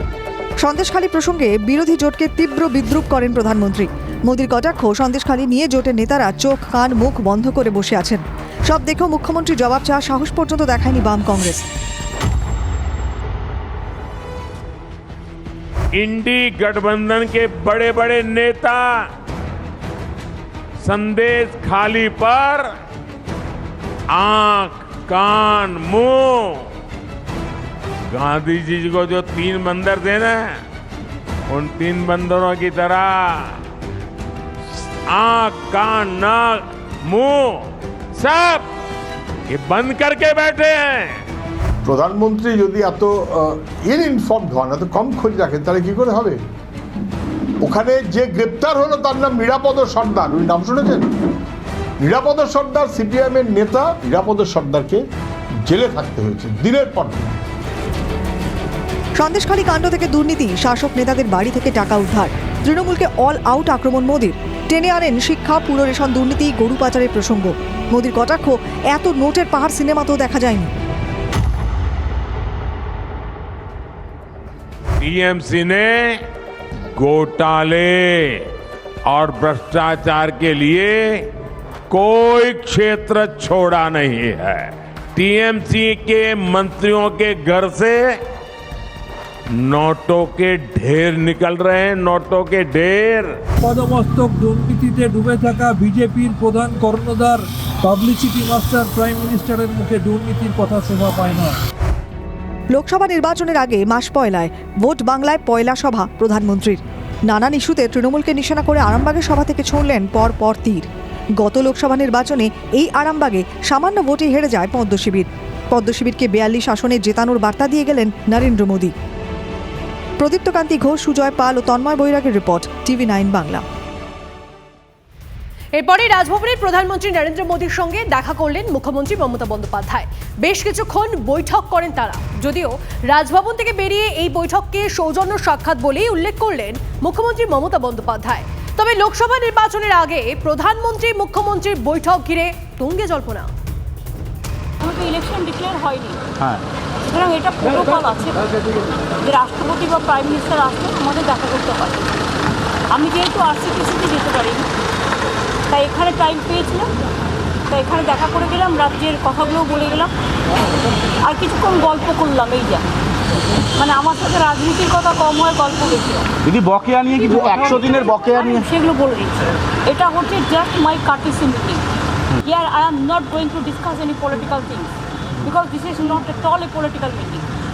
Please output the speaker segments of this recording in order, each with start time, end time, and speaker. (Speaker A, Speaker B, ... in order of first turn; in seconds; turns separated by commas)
Speaker A: 0.6-11.6, Speaker B: 15.9-19.1, Speaker B: 20.8-22.7, Speaker B: 24.1-26.7, Speaker B: 28.1-30.6, Speaker B: 31.5-33.6, Speaker B: 35.1-38.7, Speaker B: 39.5-41.2, Speaker C: 41.8-46.4, Speaker C: 47.6-51.1, Speaker C: 52.0-55.0, Speaker C: 55.7-57.3, Speaker A: 59.2-70.7, Speaker B: 75.0-76.2, Speaker B: 76.9-78.5, Speaker B: 79.0-81.3, Speaker B: 81.9-88.2, Speaker B: 89.6-93.3, Speaker D: 93.6-101.6, Speaker A: 102.7-110.8, Speaker A: 111.4-118.9, Speaker A: 120.2-123.6, Speaker E: 125.8-143.5, Speaker F: 144.8-146.2, Speaker F: 147.1-148.5, Speaker F: 149.2-152.0, Speaker F: 152.9-154.7, Speaker F: 155.7-156.9, Speaker F: 157.7-160.1, Speaker F: 161.2-162.8, Speaker F: 163.8-166.2, Speaker G: 166.4-168.6, Speaker F: 167.2-171.8, Speaker F: 172.4-174.9, Speaker F: 175.4-177.4